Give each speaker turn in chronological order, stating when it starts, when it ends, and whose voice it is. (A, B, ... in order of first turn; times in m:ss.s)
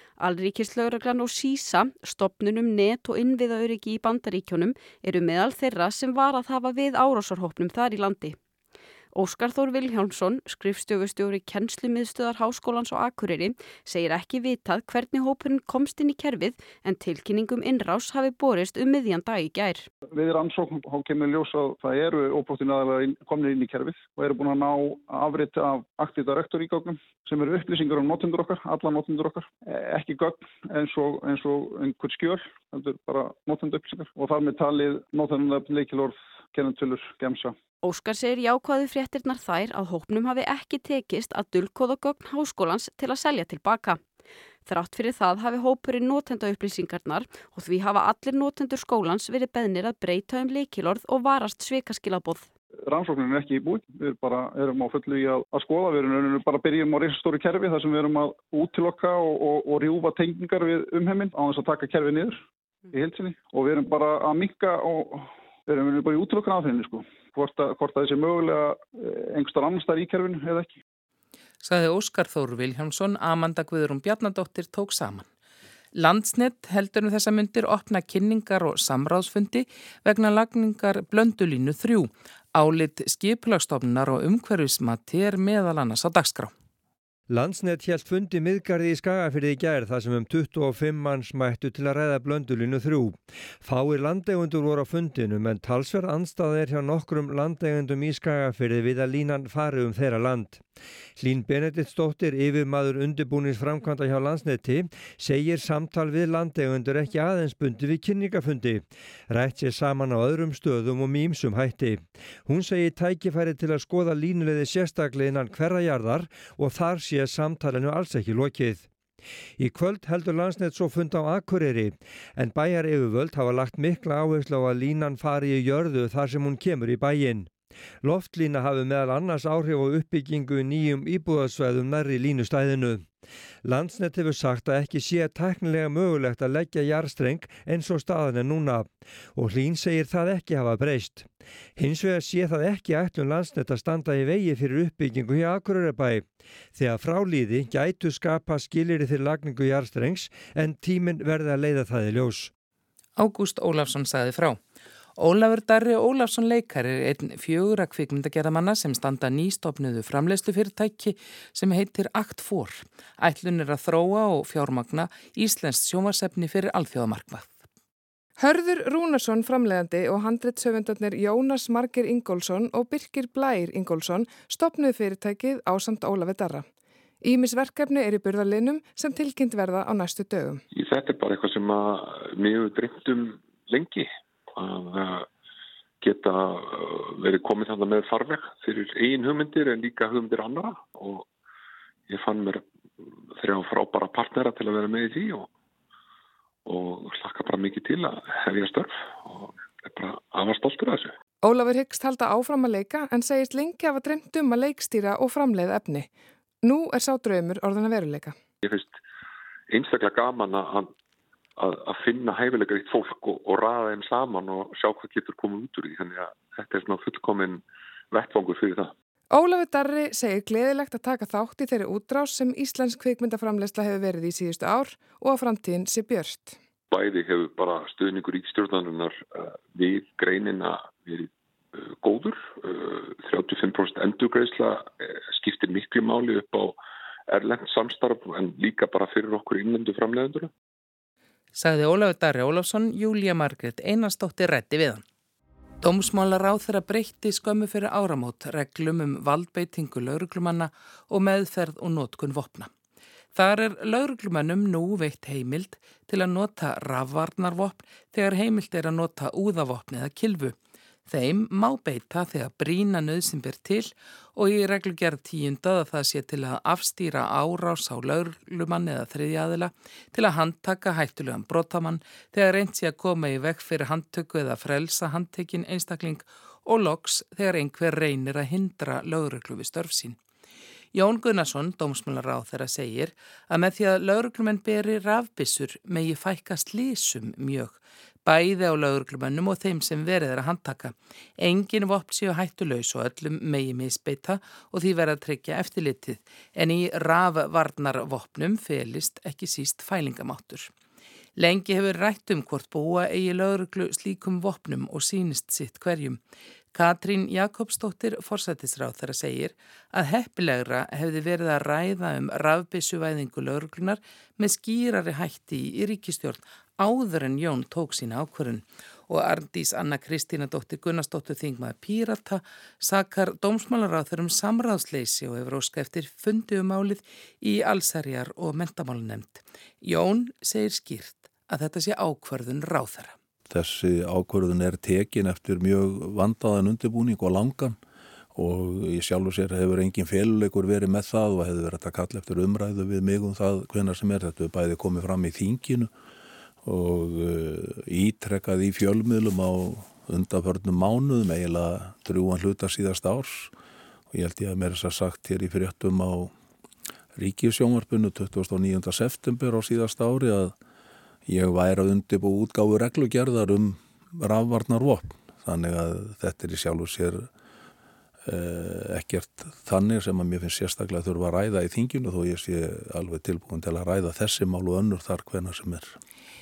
0:00.2-0:08.4 A
0:09.1-0:19.9 A
0:20.1-0:37.5 B
0:37.8-0:44.0 A
0:44.6-0:52.5 A
0:52.9-1:10.8 B
1:11.6-1:15.3 C
1:15.9-1:26.5 C
1:27.3-1:40.6 D
1:41.2-1:58.9 D
1:59.6-2:07.5 D
2:08.0-2:13.1 D
2:13.6-2:32.5 D
2:33.2-2:34.6 C
2:35.2-2:47.6 C
2:48.4-2:56.7 E
2:57.2-3:00.6 E
3:00.7-3:05.3 F
3:06.0-3:11.3 F
3:12.1-3:12.6 F
3:13.3-3:15.5 F
3:16.6-3:21.1 F
3:21.4-3:26.1 E
3:26.6-3:28.4 E
3:28.6-3:29.0 F
3:29.7-3:30.9 F
3:31.6-3:38.9 F
3:39.3-3:46.6 E
3:46.9-3:56.8 F
3:57.3-4:00.5 F
4:01.5-4:05.0 C
4:05.8-4:12.7 C
4:13.3-4:20.5 C
4:21.1-4:40.2 C
4:40.9-5:00.7 C
5:01.4-5:06.2 C
5:06.7-5:33.1 C
5:33.5-5:37.8 G
5:38.3-5:45.9 G
5:46.6-5:53.5 G
5:54.1-5:56.3 G
5:57.2-6:00.5 G
6:01.3-6:07.3 G
6:08.2-6:16.0 G